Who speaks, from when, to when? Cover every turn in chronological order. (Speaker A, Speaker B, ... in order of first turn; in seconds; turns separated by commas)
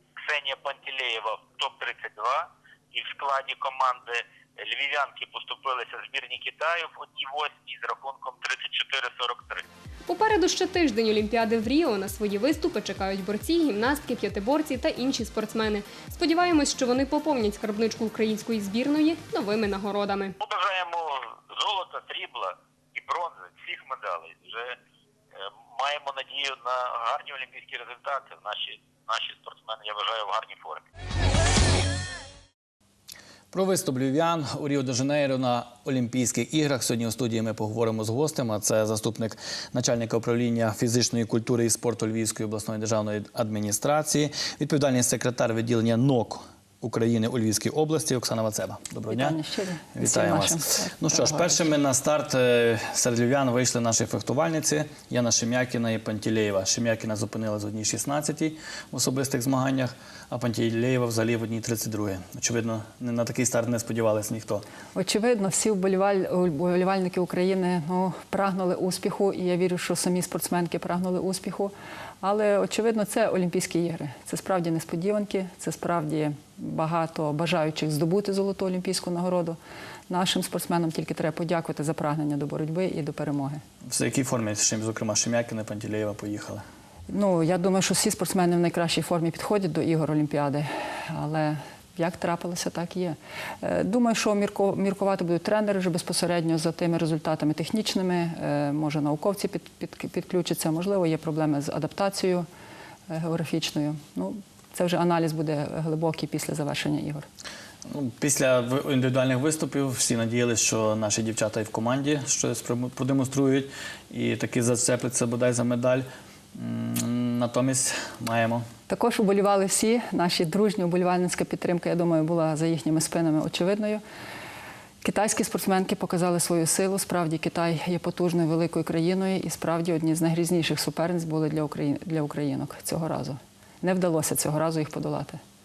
Speaker A: 0.2-9.6, Speaker B: 10.1-20.4, Speaker A: 20.4-24.8, Speaker A: 25.7-30.8, Speaker C: 33.5-49.4, Speaker D: 49.1-51.7, Speaker C: 50.0-64.7, Speaker D: 65.0-79.6, Speaker D: 80.1-83.6, Speaker C: 83.9-86.6, Speaker D: 87.1-102.5, Speaker D: 103.1-107.3, Speaker C: 107.9-118.7, Speaker D: 118.9-124.0, Speaker D: 125.0-135.4